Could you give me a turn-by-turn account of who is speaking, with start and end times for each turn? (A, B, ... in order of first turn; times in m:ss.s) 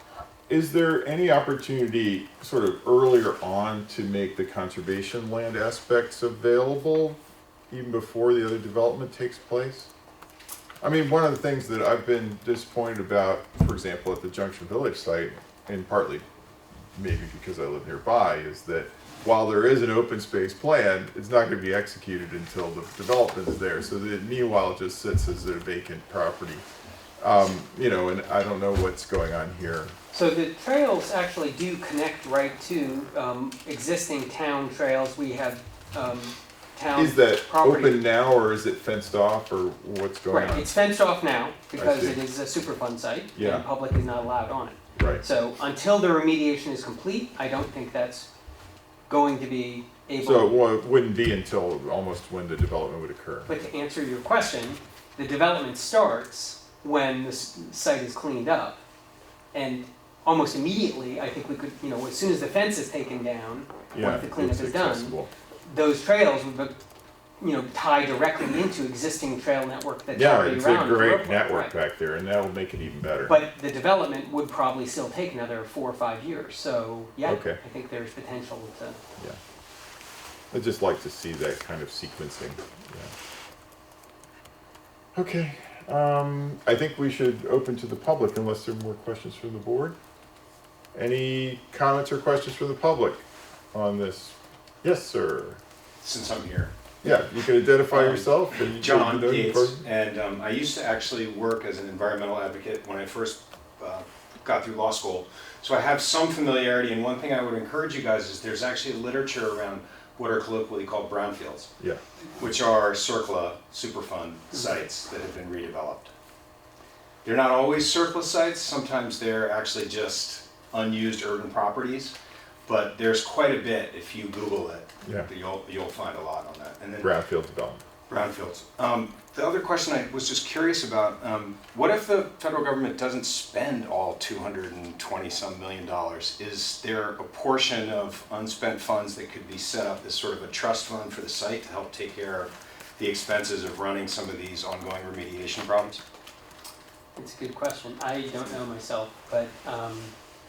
0:00.5-0:07.2 A
0:07.7-0:09.9 A
0:10.8-0:16.2 A
0:16.9-0:26.6 A
0:27.2-0:29.9 A
0:30.1-0:38.0 B
0:36.9-0:40.7 A
0:40.3-0:48.3 B
0:41.7-0:42.2 A
0:43.3-0:43.6 A
0:45.0-0:45.2 A
0:49.1-0:50.6 B
0:50.2-0:53.5 A
0:53.5-0:58.8 B
0:59.5-1:06.8 B
1:03.9-1:05.3 A
1:07.4-1:11.7 B
1:10.1-1:13.4 A
1:13.3-1:19.0 B
1:17.2-1:17.6 A
1:20.5-1:23.1 A
1:25.1-1:30.0 A
1:30.9-1:35.6 A
1:36.0-1:36.7 C
1:37.0-1:39.8 A
1:37.9-1:51.7 C
1:52.4-1:56.1 C
1:57.2-2:02.1 C
2:02.7-2:07.1 C
2:05.0-2:05.3 A
2:07.0-2:07.8 A
2:08.1-2:26.0 C
2:27.2-2:30.1 B